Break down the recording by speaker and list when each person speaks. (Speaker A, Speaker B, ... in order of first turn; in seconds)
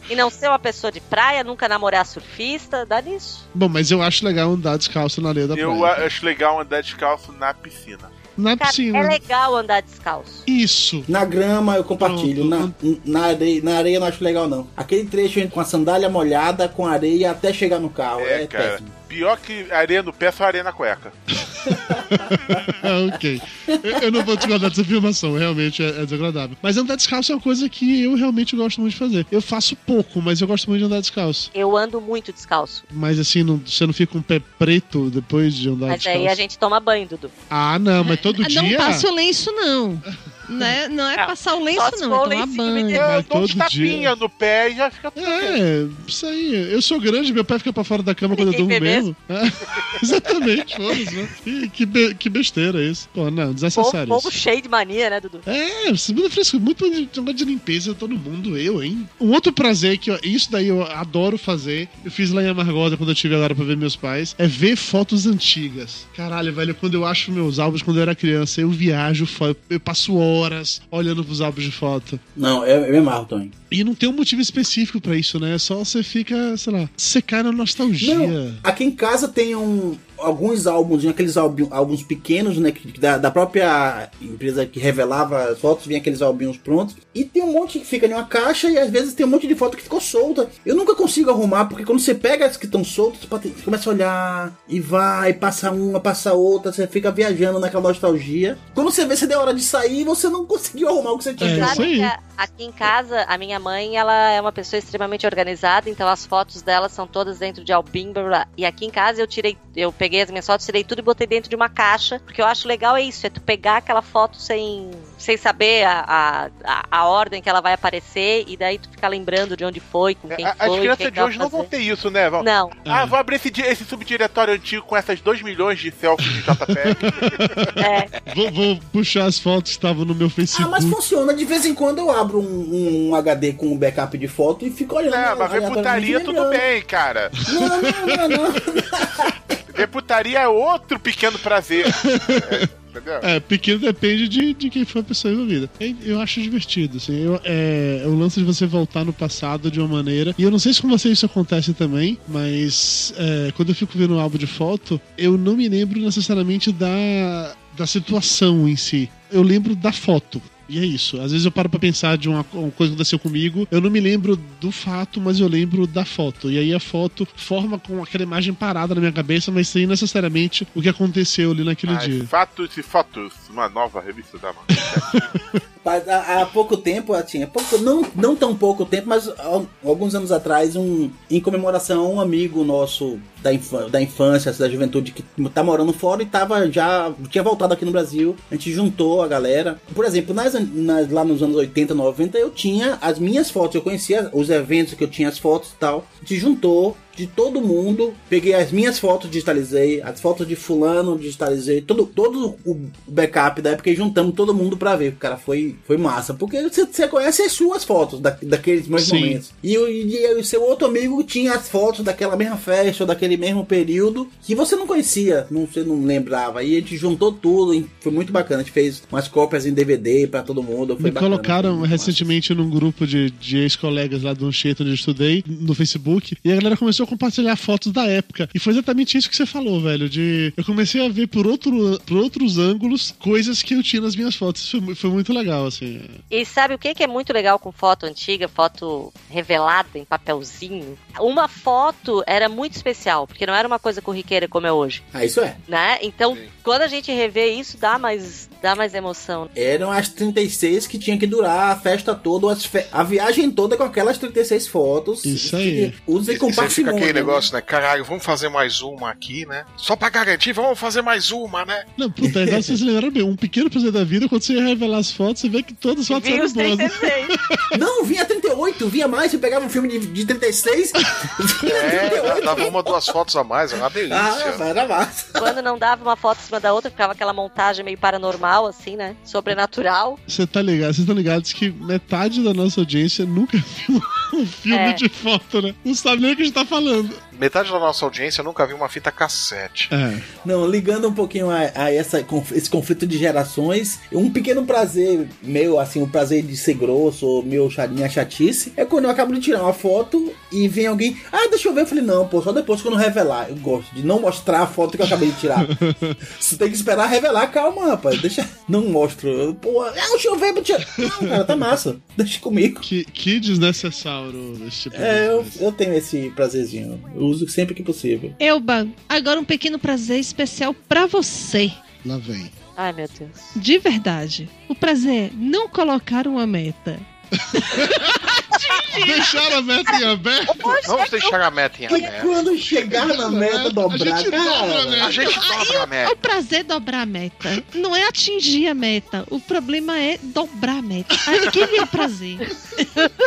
Speaker A: 0.1-3.5, 8.6-10.4, 31.5-32.9, 35.9-37.3, 41.2-43.1, 48.3-49.1, 53.8-55.4, 101.4-121.7, 122.4-122.8, 127.8-128.1, 236.3-245.1, 245.7-249.5, 266.1-267.4, 275.4-280.2, 284.7-285.0, 322.8-323.4, 330.5-331.4
Speaker B: 3.5-6.1, 8.4-9.2, 10.5-11.1, 12.0-12.8, 21.4-31.5, 32.9-36.4, 37.5-39.1, 43.0-44.1, 45.2-54.3, 55.5-72.2, 73.7-78.6, 101.4-102.1, 122.9-123.2, 126.5-131.0, 137.5-138.4, 141.8-142.7, 143.2-172.3, 174.8-175.6, 209.0-209.4, 221.0-236.2, 255.2-255.9, 262.0-267.7, 280.3-287.2, 289.9-290.3, 305.6-306.2, 311.0-311.8, 312.8-315.6, 322.0-322.5, 327.4-328.3, 328.9-330.8, 332.9-335.5, 341.3-342.1
Speaker C: 5.5-8.1, 18.2-21.1, 43.0-45.6, 120.4-127.7, 135.1-137.3, 139.7-143.3, 171.9-175.2
Speaker D: 11.1-18.9, 72.4-73.5, 78.0-101.9, 130.5-136.6, 137.5-139.4, 175.8-222.3, 245.1-245.6, 249.6-257.5, 262.2-262.8, 267.7-273.1, 274.1-275.6, 290.4-305.7, 306.3-312.9, 314.9-318.4, 331.9-335.2
Speaker E: 38.0-43.0, 318.4-321.8, 323.6-327.0, 327.6-329.4, 335.3-343.1
Speaker F: 256.2-261.9, 271.7-274.7, 287.3-289.9, 330.8-332.4, 335.0-336.2